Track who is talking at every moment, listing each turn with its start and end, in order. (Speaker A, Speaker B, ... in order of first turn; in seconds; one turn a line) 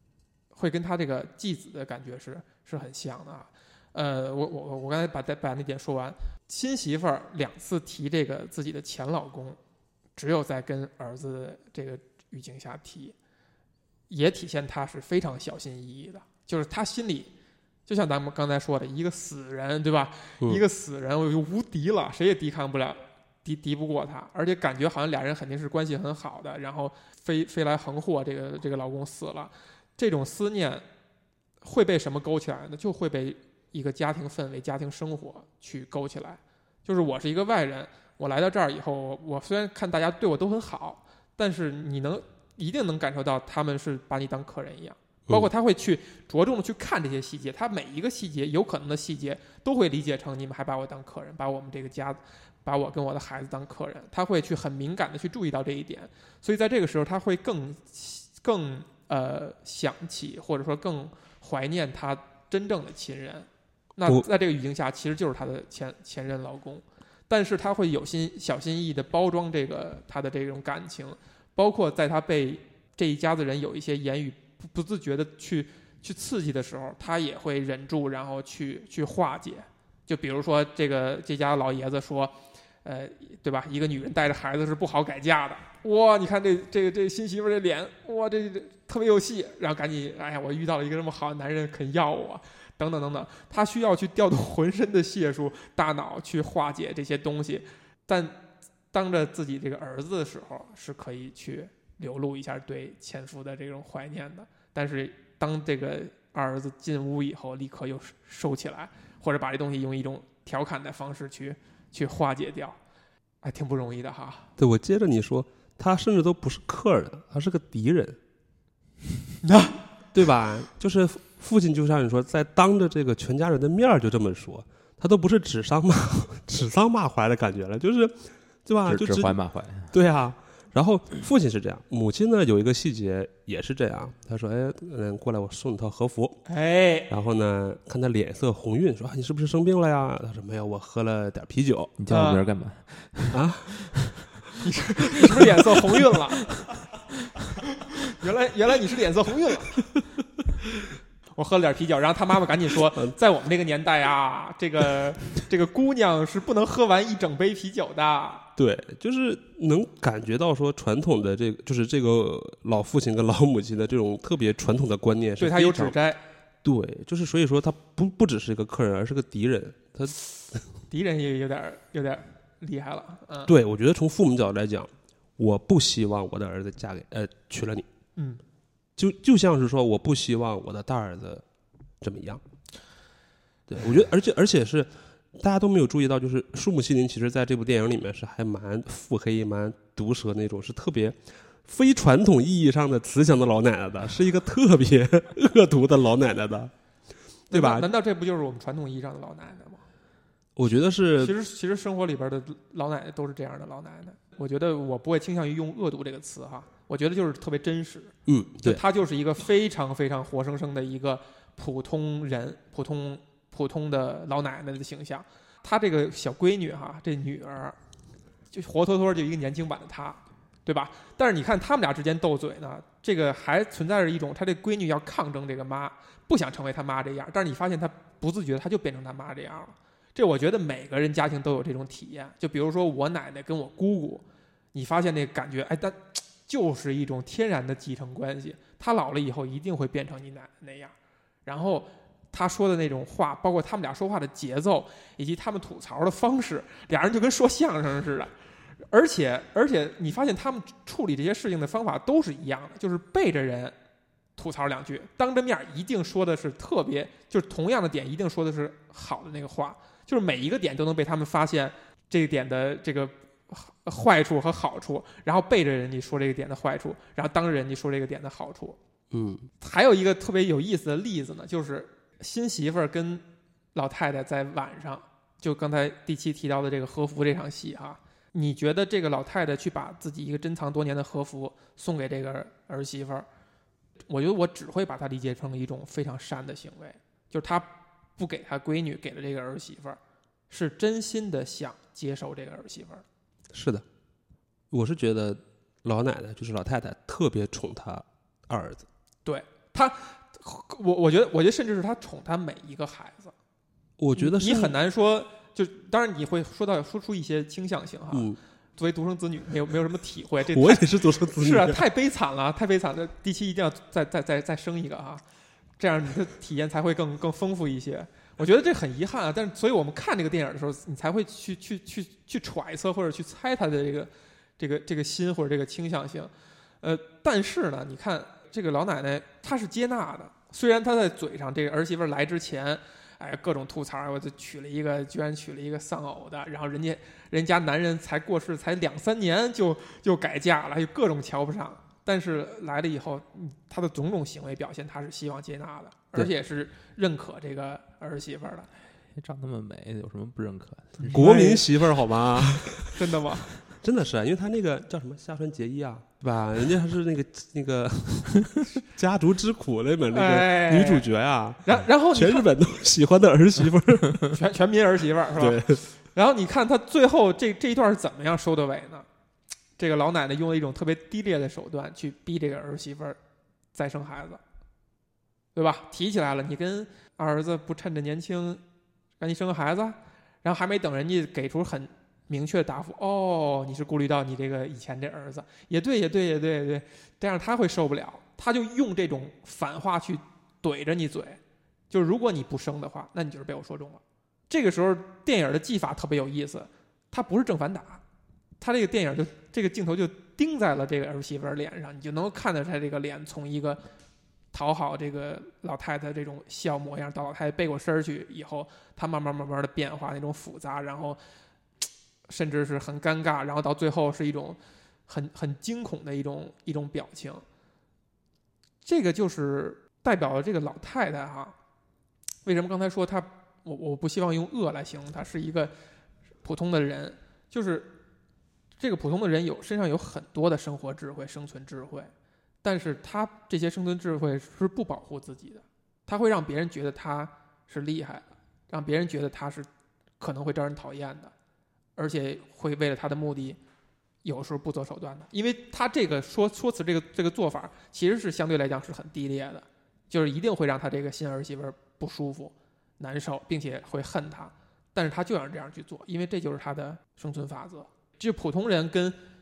Speaker A: 0.5-9.6
Speaker A: 10.2-13.1
Speaker A: 14.1-17.3
Speaker A: 17.9-30.8
Speaker A: 31.6-98.4
Speaker A: 98.9-112.8
Speaker A: 113.4-114.5
Speaker B: 114.6-118.2
Speaker A: 119.4-119.8
Speaker B: 120.1-129.4
Speaker C: 128.8-129.9
Speaker B: 129.9-136.4
Speaker A: 136.5-137.1
Speaker B: 137.1-141.9
Speaker C: 142.0-144.1
Speaker A: 142.1-142.5
Speaker B: 143.3-144.1
Speaker A: 144.6-146.6
Speaker A: 147.8-149.8
Speaker A: 151.3-158.4
Speaker B: 158.6-165.9
Speaker A: 165.4-166.2
Speaker B: 166.6-170.7
Speaker A: 170.9-173.5
Speaker B: 173.5-177.9
Speaker B: 179.0-181.4
Speaker B: 182.0-182.4
Speaker B: 183.7-196.7
Speaker B: 197.5-197.9
Speaker A: 197.5-199.8
Speaker B: 200.6-201.3
Speaker A: 201.2-217.8
Speaker B: 208.2-208.8
Speaker A: 218.5-240.9
Speaker A: 241.4-248.3
Speaker A: 248.9-253.7
Speaker A: 254.4-268.8
Speaker B: 269.1-269.5
Speaker A: 269.6-273.2
Speaker A: 273.7-283.3
Speaker A: 284.1-290.0
Speaker A: 290.5-293.0
Speaker B: 293.5-293.8
Speaker B: 294.7-298.9
Speaker A: 299.2-303.3
Speaker B: 304.0-304.8
Speaker A: 304.1-315.2
Speaker B: 308.1-308.4
Speaker B: 310.5-311.8
Speaker A: 315.8-326.3
Speaker A: 326.8-348.7
Speaker C: 349.1-351.3
Speaker A: 351.0-351.6
Speaker B: 351.1-353.0
Speaker A: 352.9-353.5
Speaker B: 353.6-364.4
Speaker A: 360.1-361.1
Speaker A: 361.6-362.5
Speaker A: 364.3-369.1
Speaker B: 365.4-365.8
Speaker A: 369.8-373.2
Speaker A: 373.7-374.4
Speaker A: 375.5-378.6
Speaker A: 379.2-391.4
Speaker A: 391.9-398.0
Speaker A: 398.6-403.8
Speaker A: 404.5-411.2
Speaker A: 412.3-417.4
Speaker A: 418.8-421.5
Speaker A: 422.4-425.7
Speaker A: 426.4-427.9
Speaker A: 428.8-432.1
Speaker A: 432.6-439.7
Speaker A: 440.2-441.3
Speaker A: 442.0-443.6
Speaker A: 444.2-459.2